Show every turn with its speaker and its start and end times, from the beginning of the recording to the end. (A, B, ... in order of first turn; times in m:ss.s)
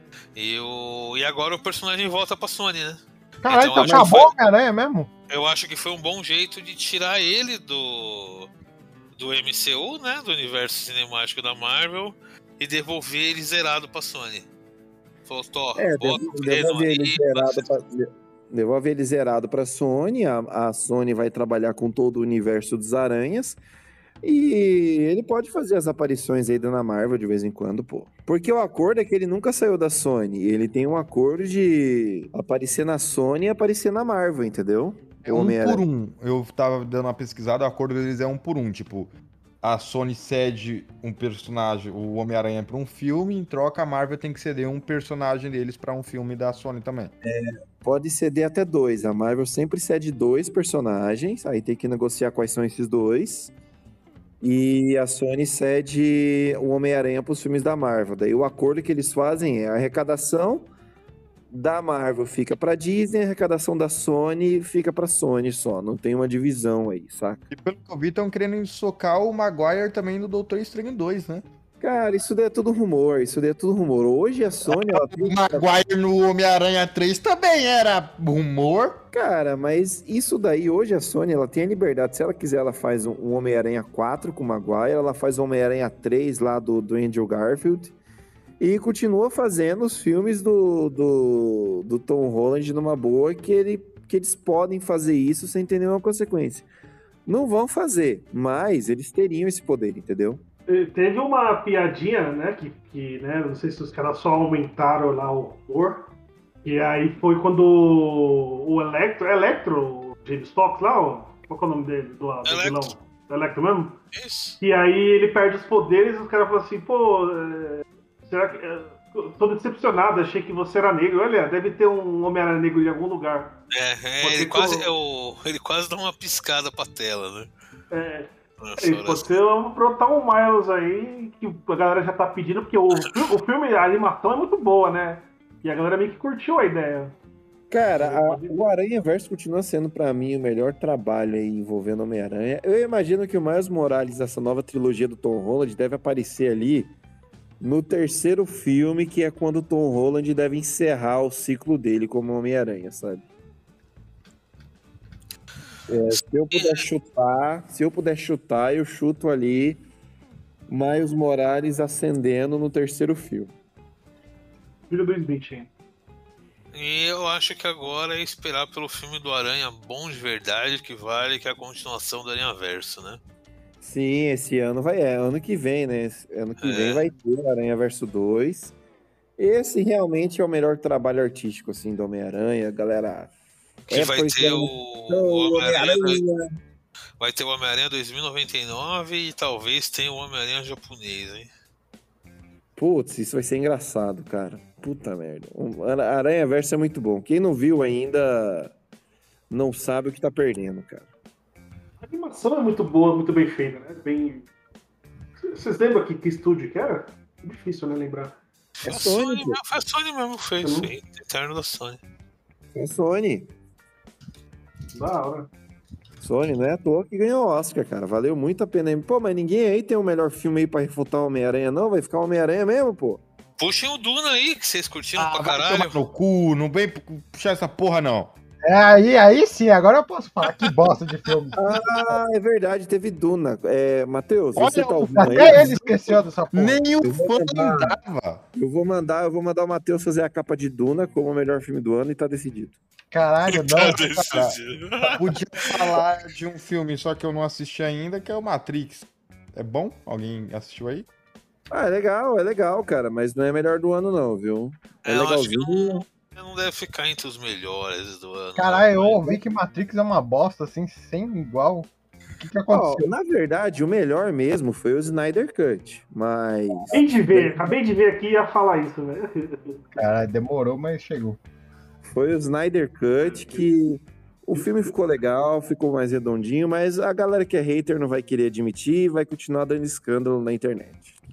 0:00.3-0:04.3 A
0:03.4-0:05.1 B
0:03.8-0:04.1 C
0:05.3-0:08.5 A
0:09.2-0:14.5 A
0:15.3-0:17.6 A
0:15.8-0:23.6 C
0:24.2-0:35.8 C
0:35.2-0:47.1 D
0:47.2-0:53.5 C
0:54.4-1:00.7 C
1:01.5-1:07.4 C
1:07.5-1:11.4 D
1:11.8-1:15.6 C
1:14.6-1:19.0 D
1:19.1-1:27.9 C
1:28.6-1:36.7 C
1:37.2-1:40.4 C
1:40.7-1:46.1 E
1:46.6-1:54.0 E
1:52.4-1:52.9 A
1:54.1-1:54.6 A
1:54.6-2:03.6 E
2:03.7-2:07.5 A
2:04.2-2:04.9 E
2:07.9-2:17.1 E
2:08.6-2:09.2 A
2:17.7-2:26.9 C
2:17.9-2:18.5 E
2:27.6-2:33.2 C
2:35.9-2:39.8 C
2:36.5-2:36.8 A
2:40.7-2:43.5 C
2:44.9-2:45.7 E
2:46.7-2:53.2 A
2:53.8-2:58.8 C
2:56.6-2:57.0 A
2:59.4-3:03.3 C
3:03.9-3:06.5 C
3:03.9-3:06.2 A
3:07.2-3:11.5 A
3:12.8-3:18.7 C
3:19.5-3:21.1 C
3:22.0-3:24.5 E
3:25.4-3:28.4 E
3:28.8-3:32.0 A
3:28.8-3:29.6 C
3:30.6-3:30.9 E
3:32.7-3:33.5 C
3:34.9-3:35.5 E
3:36.2-3:43.2 C
3:43.6-3:46.0 A
3:45.2-3:48.3 D
3:48.6-3:51.6 B
3:51.6-3:56.2 C
3:54.5-3:56.0 D
3:55.1-3:56.9 B
3:56.5-3:58.4 D
3:57.0-3:57.9 C
3:58.5-4:02.8 C
4:03.1-4:04.5 B
4:03.5-4:05.8 A
4:04.3-4:11.1 D
4:11.7-4:16.0 C
4:15.0-4:19.3 A
4:18.6-4:21.9 B
4:22.4-4:23.1 B
4:22.7-4:27.6 C
4:26.9-4:29.8 E
4:29.9-4:31.4 B
4:32.1-4:41.2 C